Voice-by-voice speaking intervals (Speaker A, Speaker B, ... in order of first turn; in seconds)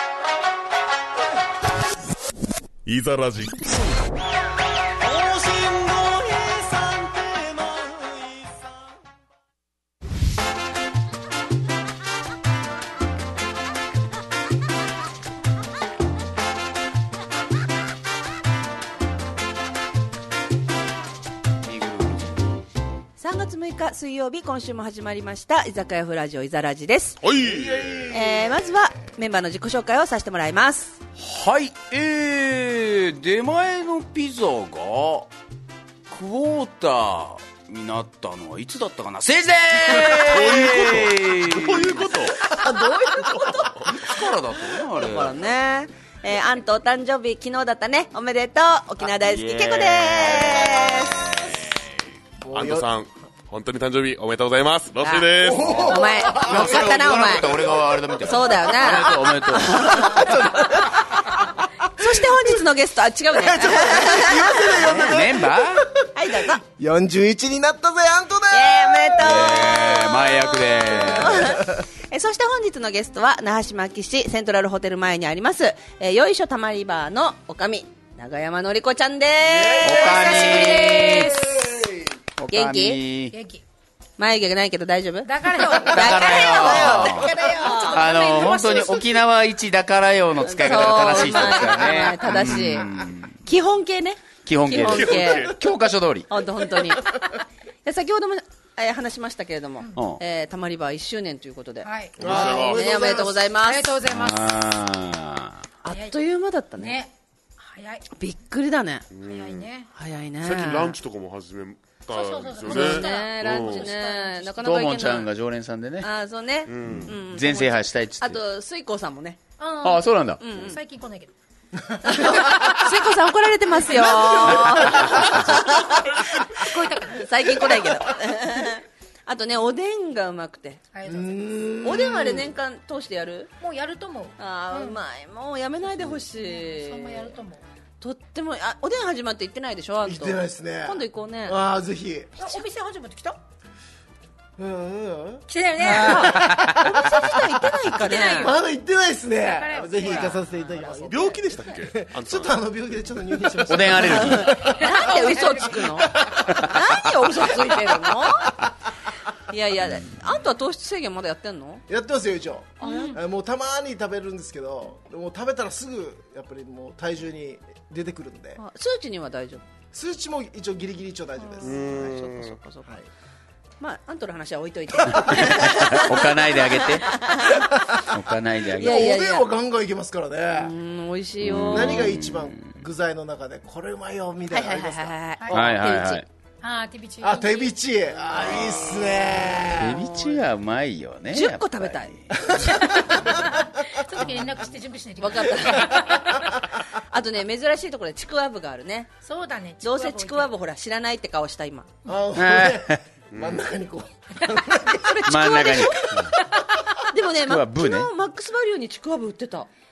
Speaker A: 2.9-3.8, 27.2-28.1, 39.9-42.6, 43.1-44.1, 52.5-55.9, 94.7-95.6, 102.2-102.9, 109.1-109.7, 110.4-113.9, 116.7-117.1, 151.0-152.6, 171.6-172.5, 203.3-203.7
Speaker B: 5.0-7.4, 27.4-28.6, 42.6-43.2, 52.4-52.9, 55.4-57.8, 59.7-62.6, 63.3-66.0, 66.6-69.7, 71.0-71.8, 79.4-82.2, 102.2-103.5, 131.1-132.4, 140.0-142.3, 144.6-145.4, 148.4-154.8, 155.5-156.6, 161.9-168.6, 169.9-172.2, 178.7-180.7, 181.5-185.6, 187.2-190.0, 192.5-193.5, 202.1-205.3
Speaker C: 21.6-22.3, 31.2-35.3, 36.1-42.2, 43.9-45.3, 49.0-51.8, 55.6-60.1, 64.6-65.9, 69.2-71.5, 79.8-81.4, 82.4-83.3, 85.9-87.3, 87.9-93.4, 94.4-96.3, 99.9-100.2, 104.0-105.6, 114.6-116.1, 116.8-118.4, 119.8-120.4, 153.7-154.6, 175.1-177.1, 178.1-179.1, 181.4-182.8, 185.5-186.2, 189.8-192.4, 202.3-203.0, 205.2-206.3, 207.4-208.1
Speaker D: 23.2-27.2, 28.1-31.0, 42.6-44.1, 45.0-51.2, 55.0-57.5, 58.2-60.9, 62.0-64.7, 66.1-66.6, 68.5-81.1, 82.5-83.0, 84.2-88.1, 90.4-92.9, 93.4-95.5, 96.3-97.1, 97.8-104.0, 105.8-107.0, 108.1-109.0, 109.9-111.0, 112.7-115.3, 116.0-119.4, 120.4-120.8, 122.0-126.1, 127.1-130.8, 131.8-133.5, 134.4-137.3, 138.0-141.6, 145.8-148.5, 150.0-151.3, 154.0-158.5, 159.5-161.8, 162.8-163.2, 168.6-169.6, 171.6-172.8, 173.8-177.7, 178.8-179.5, 180.5-182.1, 184.5-186.2, 188.3-190.4, 191.3-192.1, 195.2-196.1, 197.1-199.1, 199.8-201.9, 205.4-205.9, 207.1-209.7
Speaker E: 80.0-81.5, 83.3-83.6, 85.2-89.2, 101.8-102.2, 103.6-104.5, 106.8-108.0, 109.3-109.9, 112.1-114.8, 119.6-121.3, 124.0-125.2, 126.4-127.2, 130.9-131.3, 133.6-135.0, 136.3-137.6, 142.3-143.4, 145.5-146.7, 148.0-148.6, 149.5-150.4, 154.6-156.1, 162.8-163.2, 186.6-187.7, 192.8-196.5, 199.2-200.5, 204.6-206.7